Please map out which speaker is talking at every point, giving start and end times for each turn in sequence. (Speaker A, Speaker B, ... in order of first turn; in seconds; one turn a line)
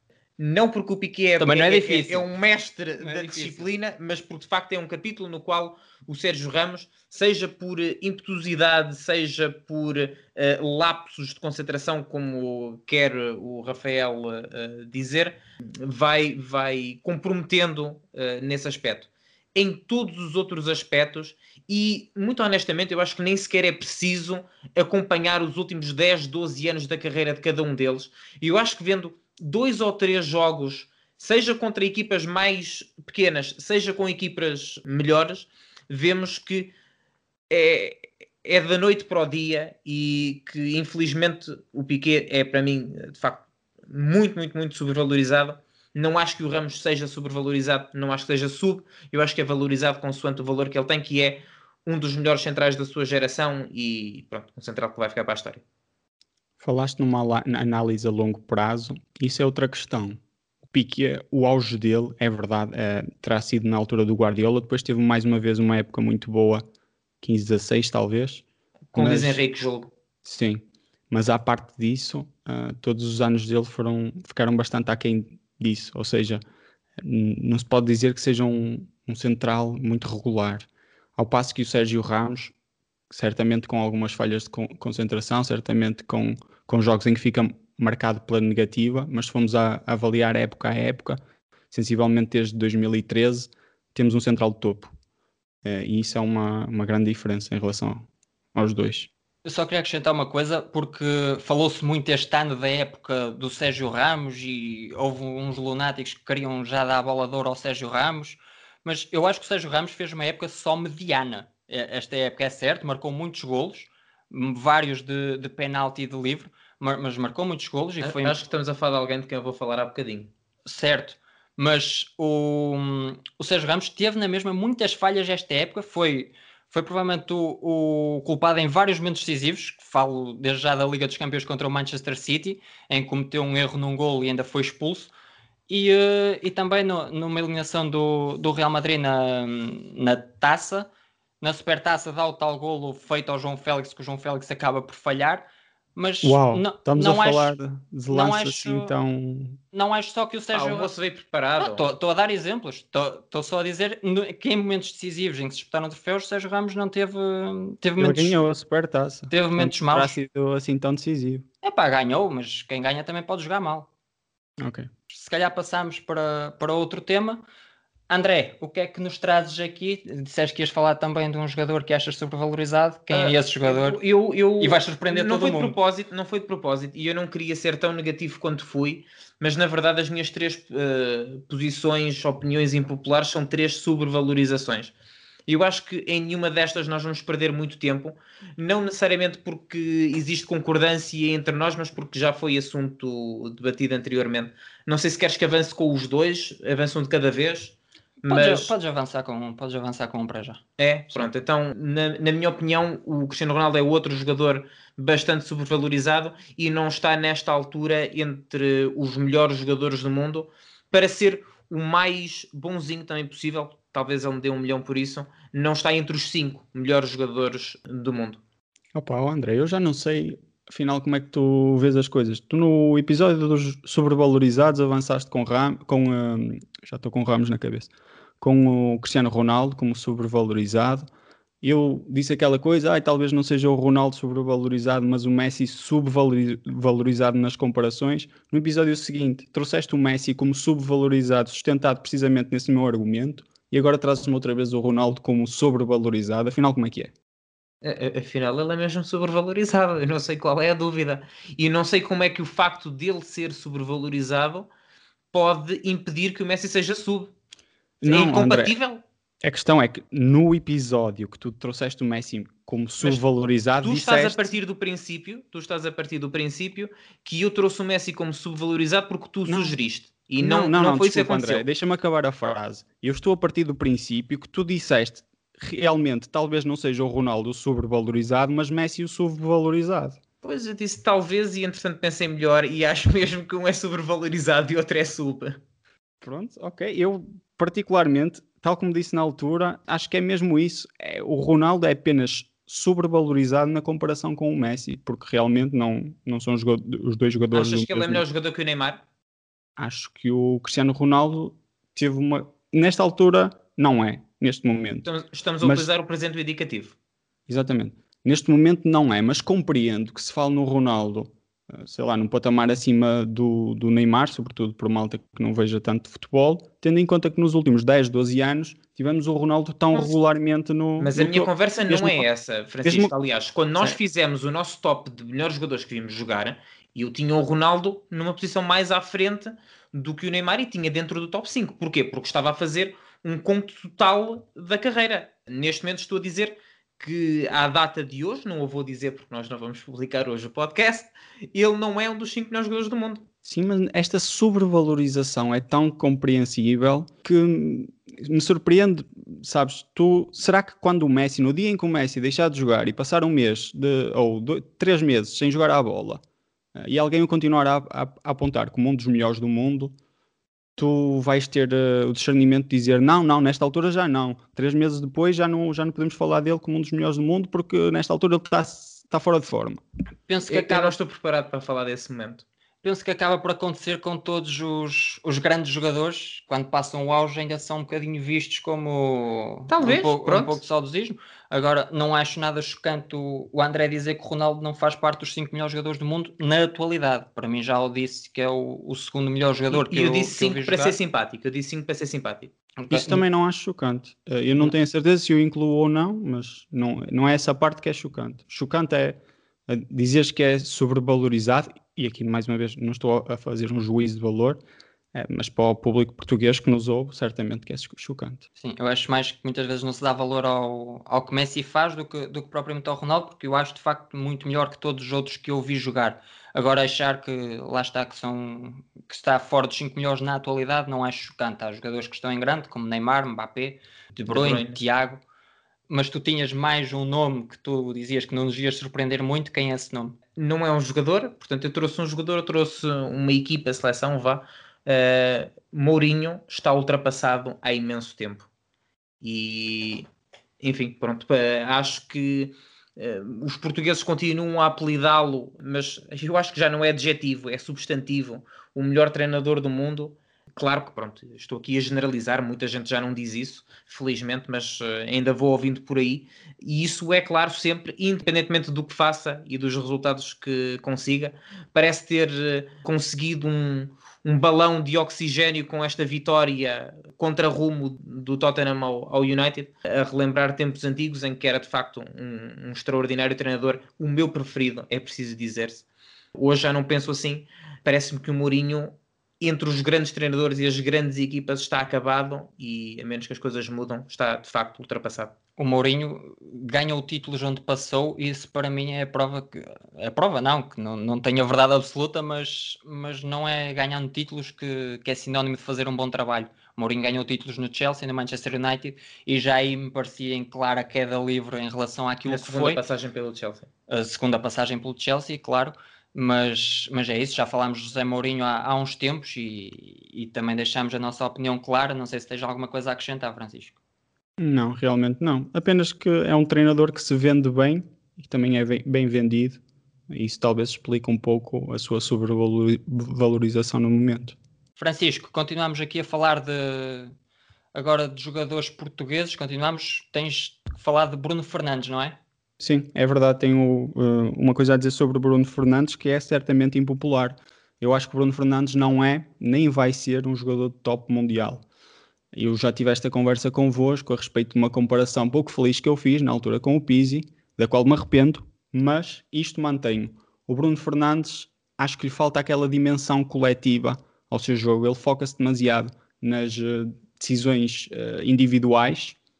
Speaker A: 0.4-36.7
Speaker B: 1.4-2.3
Speaker B: 3.0-3.7
Speaker A: 37.5-55.6
Speaker C: 56.6-66.6
Speaker C: 67.2-69.4
Speaker A: 68.9-69.9
Speaker C: 70.2-76.4
Speaker C: 77.0-82.5
Speaker C: 83.1-91.2
Speaker C: 91.7-94.9
Speaker C: 95.6-99.1
Speaker B: 99.4-118.3
Speaker A: 118.0-120.3
Speaker B: 120.7-135.1
Speaker B: 135.7-140.9
Speaker B: 141.4-147.6
Speaker C: 146.2-149.6
Speaker B: 148.1-148.9
Speaker B: 149.7-150.9
Speaker A: 150.5-151.9
Speaker B: 151.6-158.4
Speaker C: 158.0-161.4
Speaker B: 159.3-160.2
Speaker B: 161.6-163.9
Speaker C: 164.6-164.9
Speaker B: 165.1-167.4
Speaker B: 168.1-174.0
Speaker A: 173.1-184.9
Speaker B: 174.6-175.8
Speaker A: 185.5-198.7
Speaker B: 198.3-200.6
Speaker A: 200.8-218.4
Speaker C: 218.9-227.9
Speaker C: 228.4-231.1
Speaker C: 231.6-247.1
Speaker A: 247.8-254.7
Speaker A: 255.3-257.3
Speaker C: 258.0-258.7
Speaker A: 258.0-259.0
Speaker C: 259.4-264.5
Speaker A: 263.8-271.6
Speaker C: 269.5-269.7
Speaker C: 270.4-280.2
Speaker A: 280.4-285.6
Speaker C: 286.2-298.2
Speaker A: 297.5-299.0
Speaker C: 299.8-305.1
Speaker A: 305.1-306.9
Speaker C: 307.5-322.3
Speaker A: 321.0-343.3
Speaker C: 322.8-323.1
Speaker C: 343.4-356.2
Speaker C: 356.8-359.9
Speaker C: 360.8-369.8
Speaker B: 370.3-370.9
Speaker A: 370.5-372.4
Speaker B: 372.8-391.0
Speaker A: 379.7-380.6
Speaker A: 389.7-392.5
Speaker B: 392.8-393.2
Speaker C: 392.9-404.6
Speaker C: 405.1-408.5
Speaker B: 408.6-425.2
Speaker A: 424.3-424.8
Speaker B: 425.9-430.1
Speaker A: 430.4-438.5
Speaker A: 439.2-440.1
Speaker A: 440.6-485.3
Speaker B: 485.6-502.8
Speaker A: 502.3-503.7
Speaker B: 503.9-513.8
Speaker C: 514.4-524.4
Speaker B: 524.8-527.1
Speaker B: 527.7-532.2
Speaker C: 532.6-541.6
Speaker C: 542.3-559.2